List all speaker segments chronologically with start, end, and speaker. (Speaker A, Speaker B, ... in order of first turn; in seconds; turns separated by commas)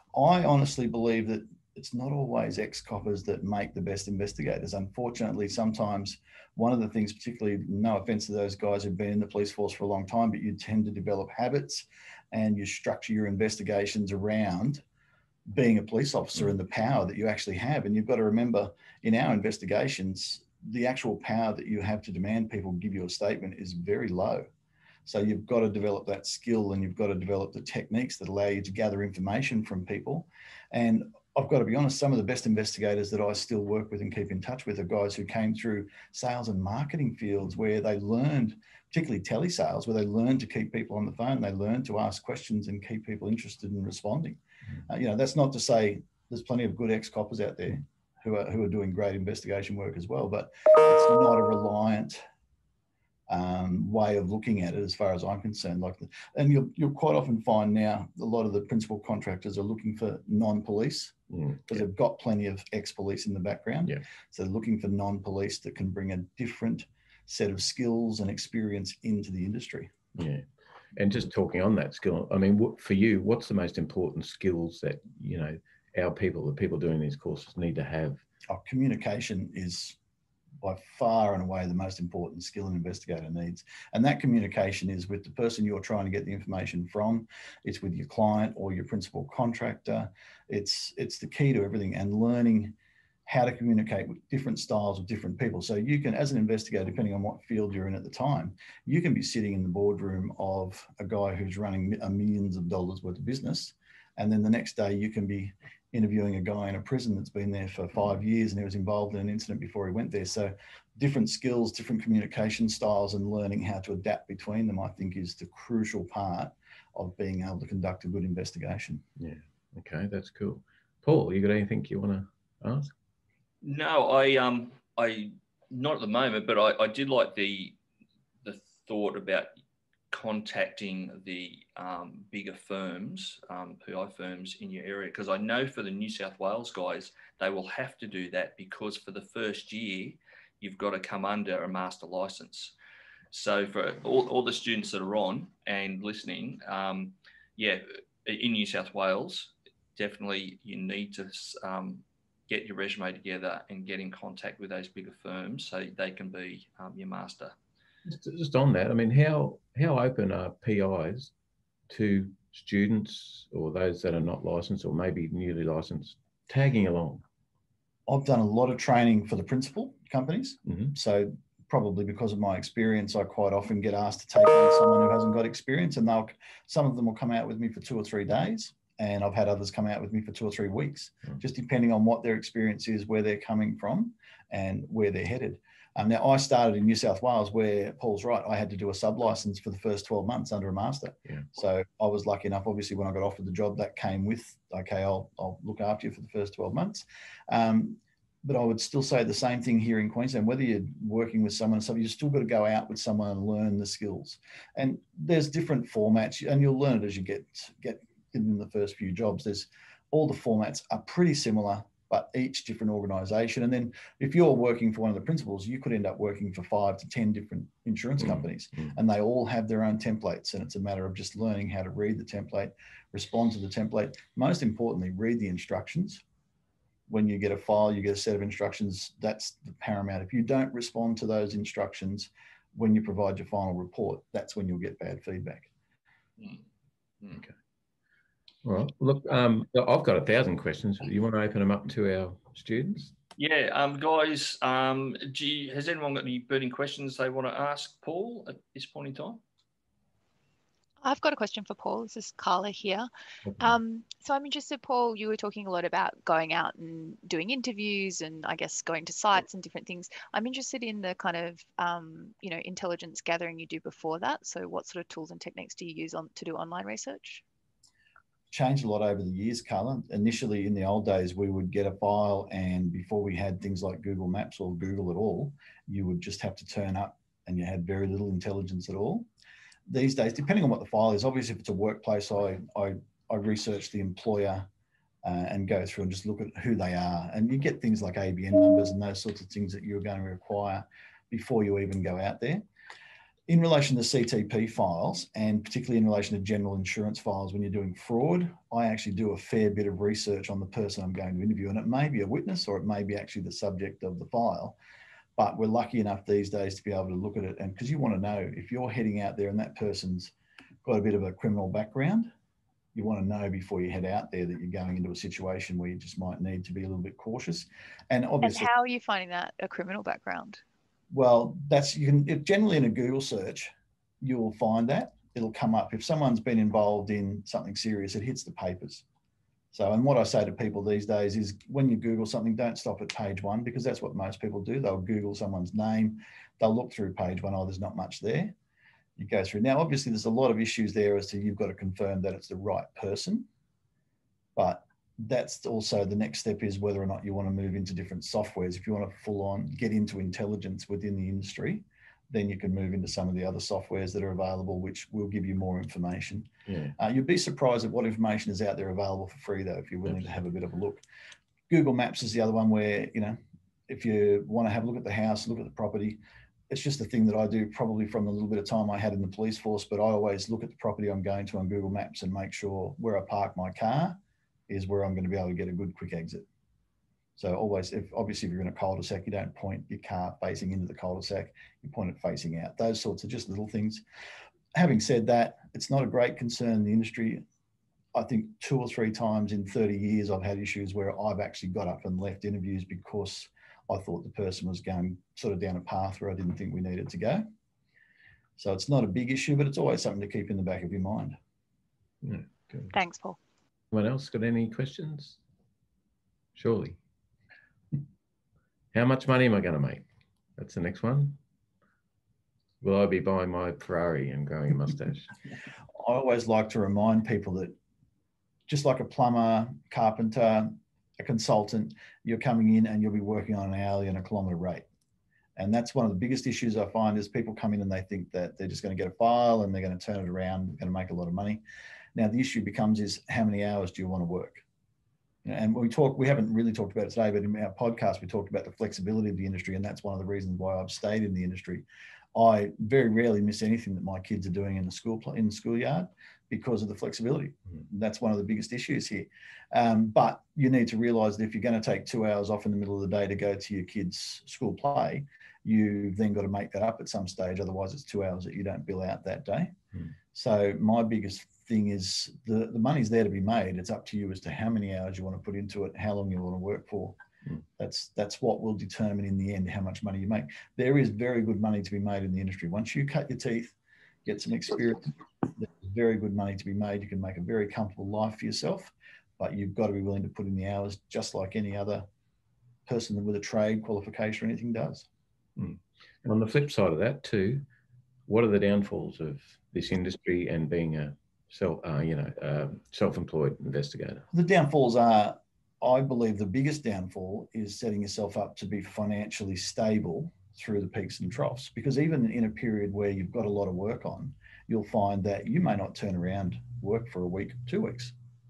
Speaker A: 0.1-14.8, Speaker A: 15.5-24.5, Speaker A: 25.1-52.2, Speaker A: 53.3-69.9, Speaker B: 61.3-61.8, Speaker B: 70.1-78.2, Speaker A: 78.5-80.0, Speaker A: 80.6-92.7, Speaker A: 93.2-119.0, Speaker B: 119.2-122.9, Speaker C: 123.6-127.8, Speaker C: 128.4-129.5, Speaker C: 130.1-142.7, Speaker C: 143.3-157.5, Speaker B: 158.1-161.3, Speaker B: 161.9-167.2, Speaker A: 168.1-226.2, Speaker B: 170.7-170.9, Speaker B: 218.2-218.9, Speaker A: 227.1-235.7, Speaker B: 238.6-243.1, Speaker C: 243.4-249.4, Speaker D: 251.0-253.1, Speaker B: 253.5-253.8, Speaker D: 253.6-267.4, Speaker A: 268.5-279.3, Speaker A: 279.9-284.7, Speaker A: 285.2-292.6, Speaker A: 293.5-304.8, Speaker A: 305.4-310.3, Speaker A: 310.8-312.3, Speaker A: 312.9-318.7, Speaker D: 318.4-320.6, Speaker A: 321.1-329.0, Speaker A: 329.7-338.5, Speaker A: 339.1-343.5, Speaker A: 344.6-361.0, Speaker B: 356.7-356.9, Speaker A: 361.7-374.2, Speaker A: 374.7-376.4, Speaker A: 377.4-384.0, Speaker A: 384.7-387.4, Speaker A: 388.1-397.4, Speaker A: 398.6-401.4, Speaker B: 402.2-402.9, Speaker D: 402.9-403.4, Speaker B: 403.9-405.4, Speaker B: 406.5-407.0, Speaker B: 408.9-410.0, Speaker B: 410.6-411.4, Speaker B: 412.8-415.3, Speaker A: 416.0-417.7, Speaker A: 418.7-424.8, Speaker A: 425.6-431.6, Speaker A: 432.1-434.6, Speaker A: 435.4-459.7, Speaker A: 460.3-467.2, Speaker A: 467.8-482.1, Speaker A: 482.9-485.1, Speaker B: 485.6-487.6, Speaker B: 488.3-494.2, Speaker A: 494.3-508.1